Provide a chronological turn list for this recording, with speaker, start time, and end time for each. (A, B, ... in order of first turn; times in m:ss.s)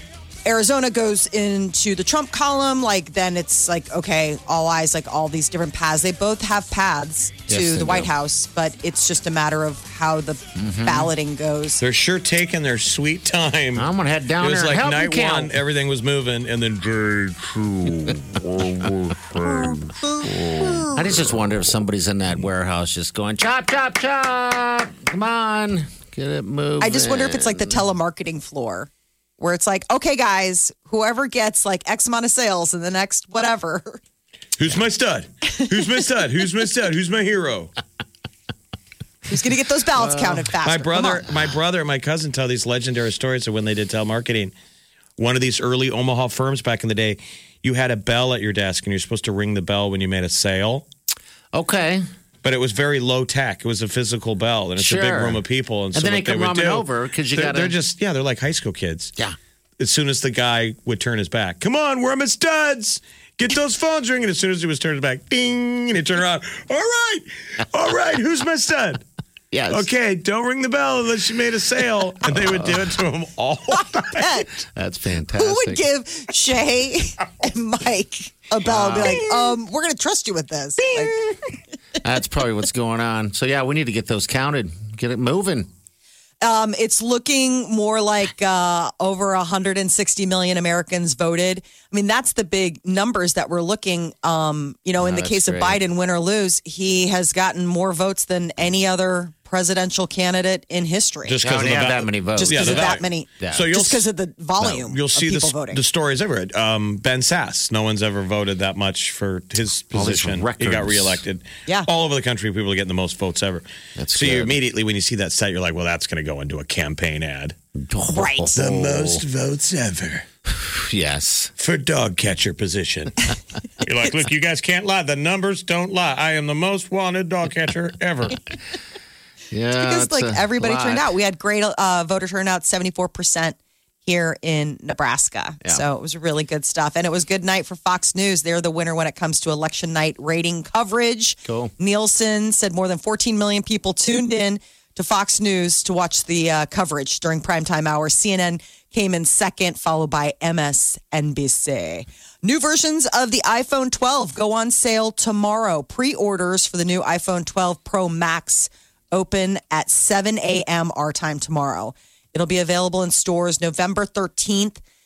0:00.4-0:11.8 A
0:07.5-0:08.1 B
0:10.5-0:11.1 B
0:11.8-0:13.9 C
0:13.7-0:15.5 B
0:14.4-0:20.8 C
0:19.5-0:20.9 A
0:20.6-0:27.8 B
0:26.8-0:34.0 A
0:34.6-0:37.7 C
0:39.2-0:41.2 A
0:40.0-0:40.5 B
0:40.6-0:44.5 C
0:45.2-0:50.8 C
0:51.5-0:52.0 B
0:52.4-0:59.1 C
0:54.8-0:55.4 B
0:55.9-0:57.7 B
0:59.8-1:09.0 C
1:09.5-1:09.9 B
1:09.7-1:14.4 C
1:12.3-1:12.8 B
1:14.0-1:14.5 A
1:14.6-1:15.8 B
1:15.3-1:21.2 A
1:18.6-1:19.3 B
1:22.0-1:25.7 B
1:26.4-1:41.4 A
1:35.0-1:35.8 B
1:41.2-1:44.1 C
1:41.4-1:43.7 B
1:42.4-1:45.8 A
1:44.6-1:57.6 C
1:49.9-1:51.2 B
1:54.0-1:54.6 B
1:57.8-1:59.2 B
1:58.1-1:58.5 A
1:58.5-2:00.2 C
2:00.5-2:01.5 B
2:01.6-2:03.3 C
2:03.8-2:08.4 C
2:09.5-2:11.1 B
2:09.8-2:44.8 A
2:21.4-2:21.7 B